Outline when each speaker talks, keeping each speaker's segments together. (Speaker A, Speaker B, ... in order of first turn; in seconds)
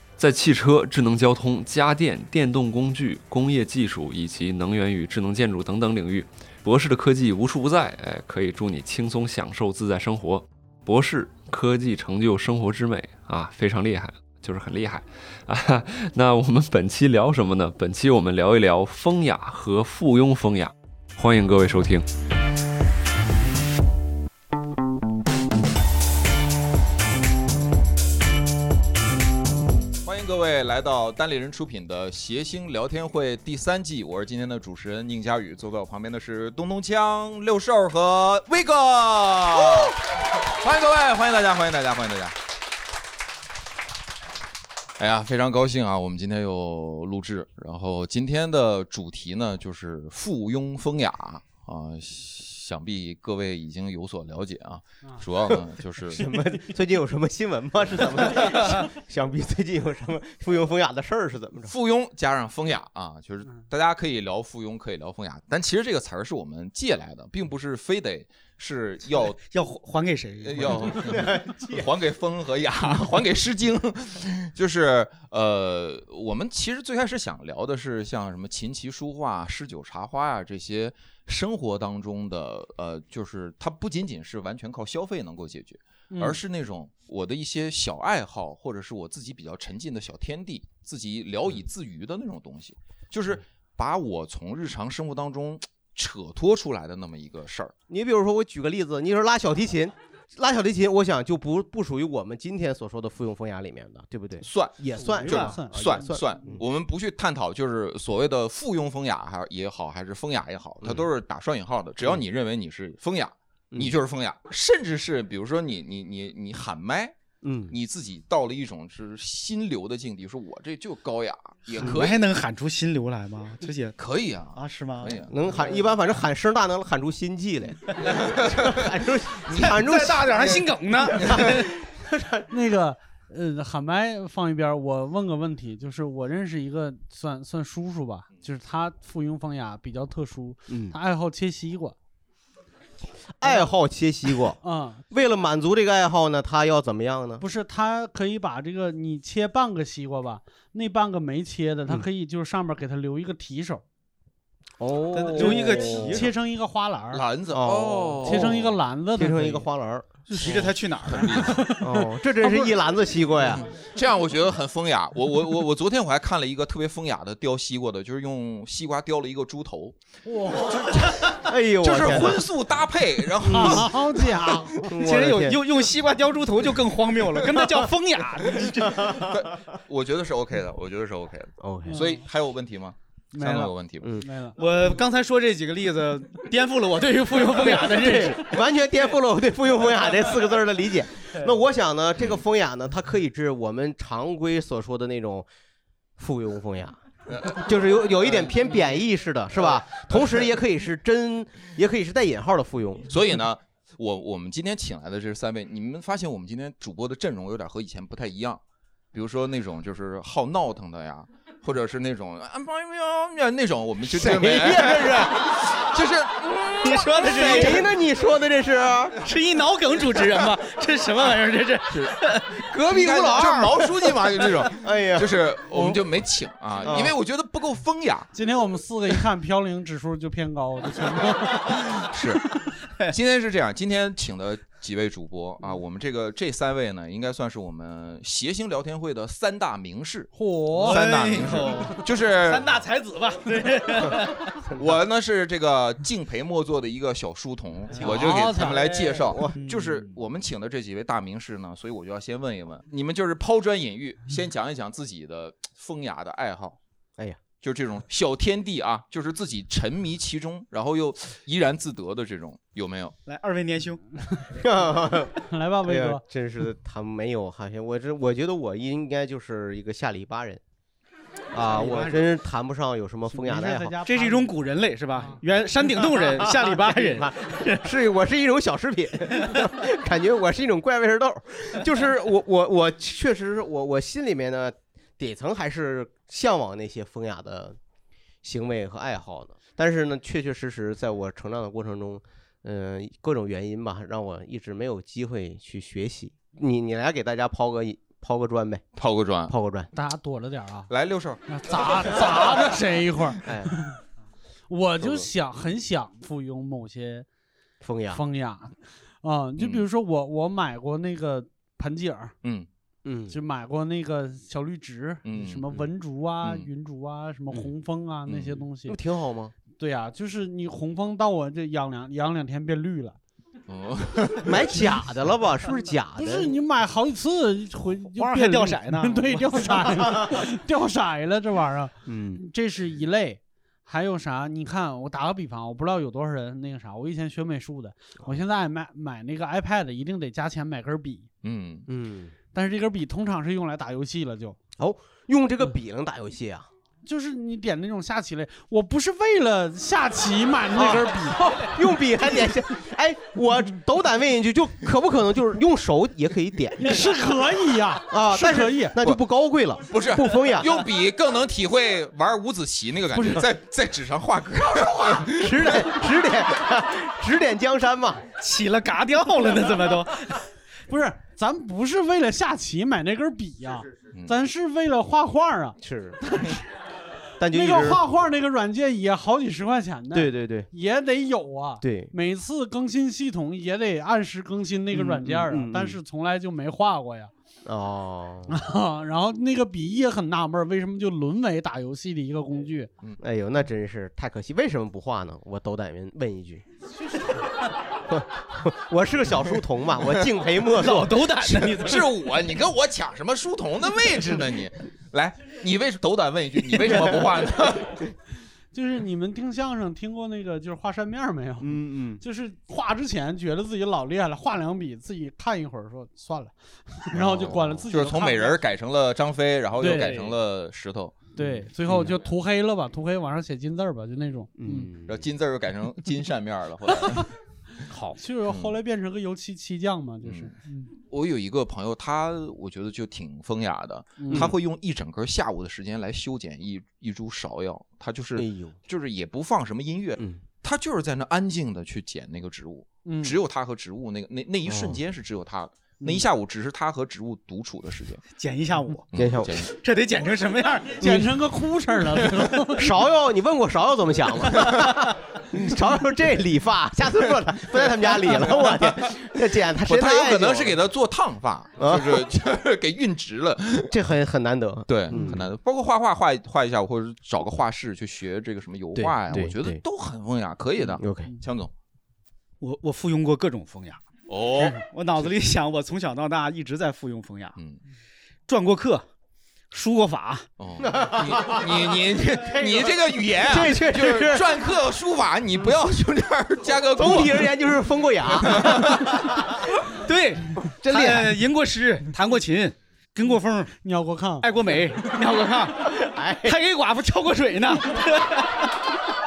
Speaker A: 0.2-22.1
Speaker B: 30.0-42.3, 45.0-56.3, 61.7-69.4, 70.4-97.7, 104.4-117.1, 117.7-122.2, 124.0-125.3, 128.1-128.8, 157.1-158.7, 161.1-161.7, 163.7-169.9, 170.6-171.2, 171.8-174.2, 179.2-184.1, 203.1-208.6, 209.1-217.6, 222.8-228.3, 231.9-232.4, 233.1-242.7, 244.7-256.8, 257.6-263.1, 298.9-299.5, 300.9-302.6, 309.6-309.8, 315.2-315.7, 318.2-318.6, 323.7-324.6, 341.4-341.9, 359.9-365.7, 401.4-408.0, 417.1-421.3, 425.1-427.3, 428.4-428.8, 430.2-448.2, 449.1-449.7, 459.8-463.9, 464.9-471.7, 474.3-475.3, 480.6-487.5, 488.5-489.1
Speaker C: 55.4-61.7, 70.9-71.8, 97.9-106.6, 110.8-111.1, 117.4-117.7, 125.3-130.6, 131.1-132.5, 140.7-140.9, 143.4-144.6, 145.1-147.4, 154.8-156.2, 157.5-158.6, 159.1-160.7, 161.8-163.7, 171.3-172.4, 173.4-173.9, 174.8-175.6, 178.6-179.3, 181.6-182.0, 187.6-195.5, 196.2-203.1, 214.3-215.5, 217.1-219.2, 222.7-224.0, 224.7-225.4, 226.8-227.2, 264.5-270.6, 271.5-274.0, 276.0-287.8, 288.4-298.8, 299.5-299.9, 303.4-303.8, 307.8-308.2, 313.0-313.4, 318.9-319.5, 324.4-326.5, 332.1-332.4, 341.9-342.3, 344.8-346.6, 350.7-357.0, 358.1-360.8, 365.3-368.2, 375.8-376.2, 377.4-378.0, 380.1-380.7, 381.8-382.1, 384.9-386.0, 387.6-388.6, 393.2-396.6, 398.1-401.2, 411.6-412.2, 421.4-422.1, 424.6-425.2, 427.9-428.2, 438.4-438.8, 440.2-440.4, 444.6-445.0, 449.1-449.7, 451.0-451.3, 452.7-460.8, 461.8-462.2, 463.9-465.5, 468.9-469.8, 470.8-471.3, 480.8-481.9, 482.4-482.9, 483.5-484.5, 486.9-489.0, 490.7-491.4, 496.0-496.6
Speaker D: 69.4-71.0, 121.7-124.0, 124.5-125.3, 129.5-131.7, 155.1-156.3, 160.3-161.5, 174.9-179.1, 184.6-188.6, 214.1-215.2, 216.8-217.9, 219.2-222.6, 240.8-244.6, 247.9-250.2, 263.2-264.1, 271.6-272.2, 274.0-277.9, 328.1-329.9, 368.4-370.4, 400.8-402.1, 419.9-420.4, 448.3-449.1, 449.6-451.0, 472.6-477.6, 478.5-479.1, 479.7-480.5, 490.0-493.7, 494.4-498.7
Speaker E: 105.2-106.4, 132.5-141.9, 144.6-145.0, 147.4-153.8, 155.3-157.2, 158.2-159.6, 161.3-162.7, 170.3-170.7, 173.5-174.8, 181.9-182.2, 183.3-184.6, 228.3-231.8, 240.3-241.0, 248.1-248.8, 265.5-266.2, 273.3-274.5, 299.9-300.9, 301.5-304.0, 304.7-307.2, 308.1-312.3, 313.3-319.0, 319.8-323.2, 326.1-341.3, 342.5-344.6, 347.0-351.6, 356.8-358.9, 363.1-363.4, 370.9-375.8, 377.5-387.3, 388.5-392.9, 408.7-418.6, 419.8-420.2, 421.4-424.9, 428.2-430.9, 434.2-434.5, 443.0-443.4, 450.9-452.9, 493.8-494.5